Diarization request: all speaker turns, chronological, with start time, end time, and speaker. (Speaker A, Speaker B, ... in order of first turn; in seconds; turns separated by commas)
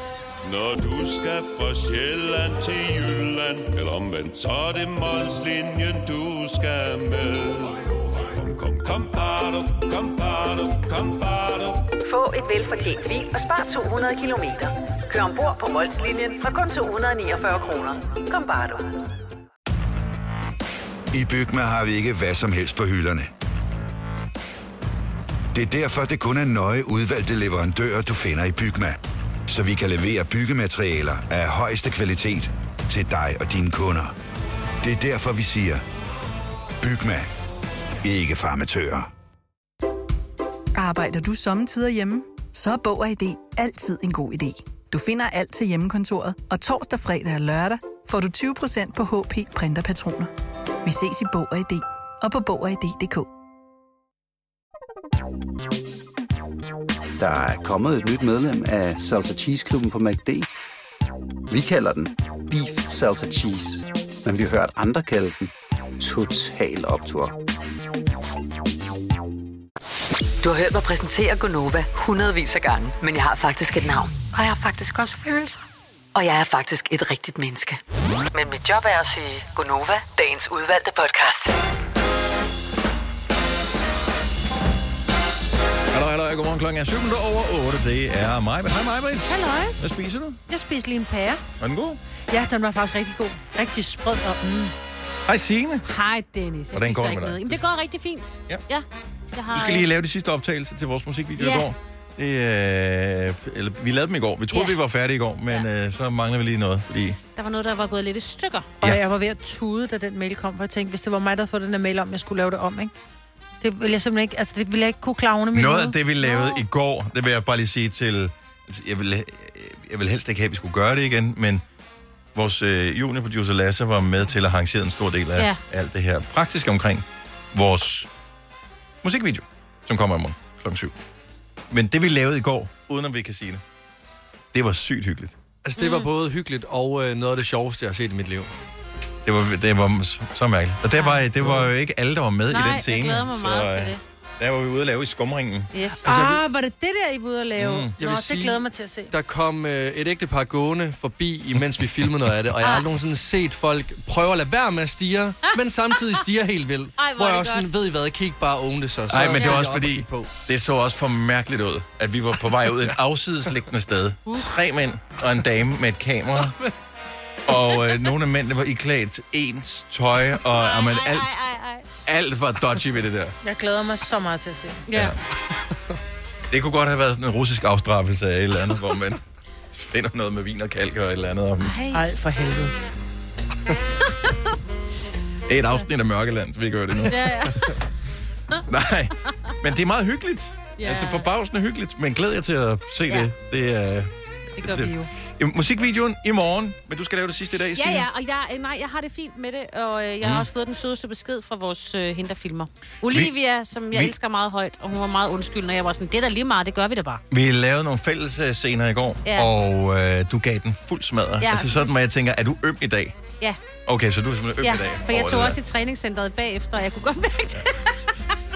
Speaker A: 0.4-11.9, Speaker B: 12.0-19.1, Speaker C: 21.1-23.3, Speaker C: 25.5-34.1, Speaker C: 34.8-35.8, Speaker C: 36.8-37.3, Speaker C: 38.0-39.1, Speaker D: 40.7-50.3, Speaker D: 50.8-53.3, Speaker E: 57.2-60.5, Speaker E: 61.5-67.3, Speaker F: 70.4-75.6, Speaker F: 76.1-77.8, Speaker F: 78.3-81.5, Speaker G: 85.9-90.4, Speaker H: 89.3-89.8, Speaker H: 90.5-91.4, Speaker G: 91.6-92.0, Speaker H: 92.3-94.7, Speaker G: 95.2-95.8, Speaker I: 95.8-99.8, Speaker G: 96.7-97.6, Speaker G: 99.5-107.2, Speaker I: 101.4-101.7, Speaker I: 104.5-104.8, Speaker I: 107.3-108.7, Speaker H: 108.8-112.9, Speaker H: 113.6-116.0, Speaker G: 115.5-121.6, Speaker I: 116.2-116.6, Speaker G: 122.3-128.1, Speaker G: 129.0-130.9, Speaker G: 131.7-133.6, Speaker G: 134.5-135.3, Speaker J: 135.6-138.5, Speaker I: 135.8-136.1, Speaker G: 139.2-145.7, Speaker I: 140.9-141.3, Speaker J: 141.4-141.7, Speaker I: 142.5-144.0, Speaker I: 145.7-146.1, Speaker H: 146.0-149.1, Speaker J: 146.1-146.4, Speaker G: 147.6-147.9, Speaker J: 148.0-160.3, Speaker I: 152.6-152.9, Speaker I: 155.5-156.2, Speaker I: 157.0-157.8, Speaker G: 159.1-166.6, Speaker I: 159.2-159.6, Speaker G: 167.4-171.4, Speaker I: 170.4-171.8, Speaker G: 172.1-173.3, Speaker H: 173.4-174.8, Speaker I: 174.9-175.2, Speaker G: 174.9-175.2, Speaker G: 176.5-181.8, Speaker I: 181.6-182.0, Speaker H: 181.9-182.7, Speaker G: 185.5-187.5, Speaker I: 187.1-187.8, Speaker G: 188.7-198.1, Speaker I: 190.8-191.2, Speaker I: 194.6-195.1, Speaker I: 197.7-207.2, Speaker G: 200.2-200.5, Speaker G: 203.1-203.3, Speaker G: 207.3-213.2, Speaker I: 209.2-209.5, Speaker I: 211.4-211.9, Speaker G: 213.8-215.6, Speaker I: 214.6-218.0